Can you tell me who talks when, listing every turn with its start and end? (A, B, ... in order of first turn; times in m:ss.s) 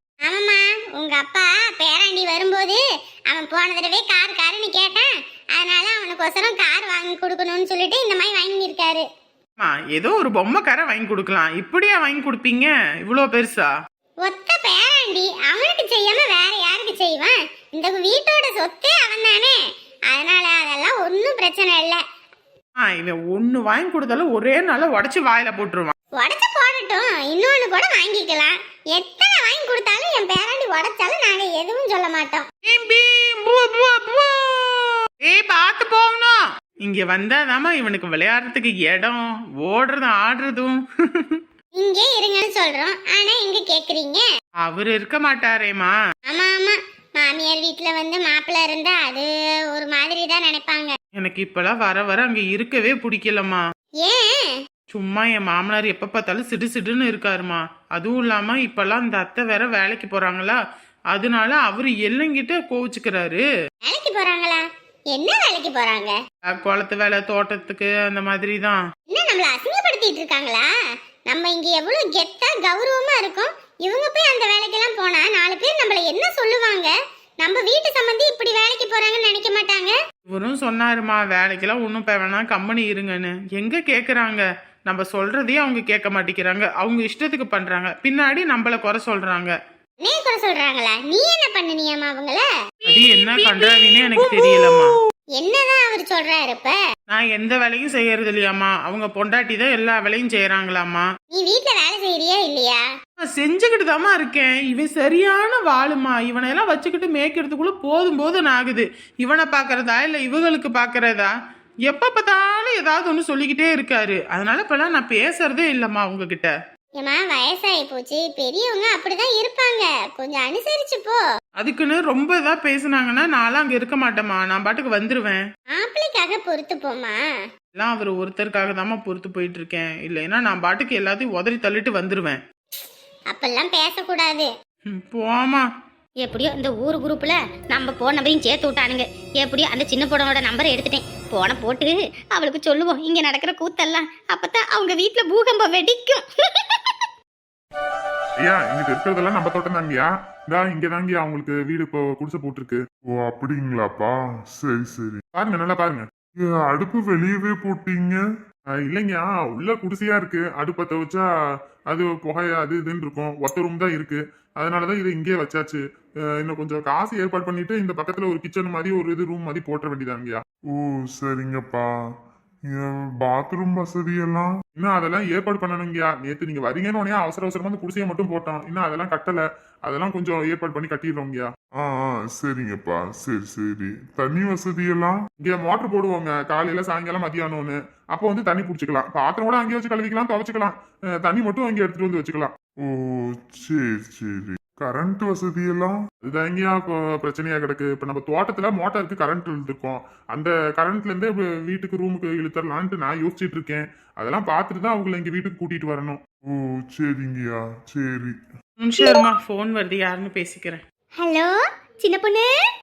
0:00.2-0:09.1 A
0:09.6-0:13.7 B
0:14.2-0:22.0 A
0:22.8-0:25.9 B
0:26.2-0:32.5 A
0:32.7-0:41.4 B
0:41.7-0:44.3 A
0:44.6-0:45.9 B
0:46.3-0:51.0 A
0:51.2-0:53.6 B
0:54.0-0:54.6 A
0:54.9-1:00.6 B
1:01.1-1:03.4 B
1:03.8-1:06.2 A
1:06.5-1:08.8 B
1:09.1-1:10.7 A
1:11.3-1:20.0 A
1:20.3-1:29.5 B
1:30.0-1:32.5 A
1:32.9-1:35.0 B
1:35.4-1:36.8 A
1:37.1-1:41.1 B
1:41.3-1:42.9 A
1:43.2-1:51.3 B
1:51.9-1:56.5 B
1:57.0-2:01.2 A
2:01.6-2:05.4 B
2:05.7-2:07.3 A
2:07.8-2:12.4 B
2:13.3-2:14.5 A
2:14.9-2:15.7 B
2:16.2-2:26.9 C
2:28.4-2:32.8 D
2:33.2-2:35.2 E
2:35.4-2:36.0 D
2:36.5-2:38.2 E
2:38.9-2:41.2 D
2:41.9-2:45.8 D
2:46.4-2:50.4 D
2:50.8-2:51.9 E
2:52.7-2:54.6 E
2:54.8-3:01.5 D
3:01.8-3:05.3 E
3:05.4-3:12.5 D
3:12.9-3:16.1 E
3:14.9-3:15.1 D
3:16.2-3:26.2 D
3:26.6-3:28.4 E
3:28.8-3:30.8 B
3:31.2-3:32.5 C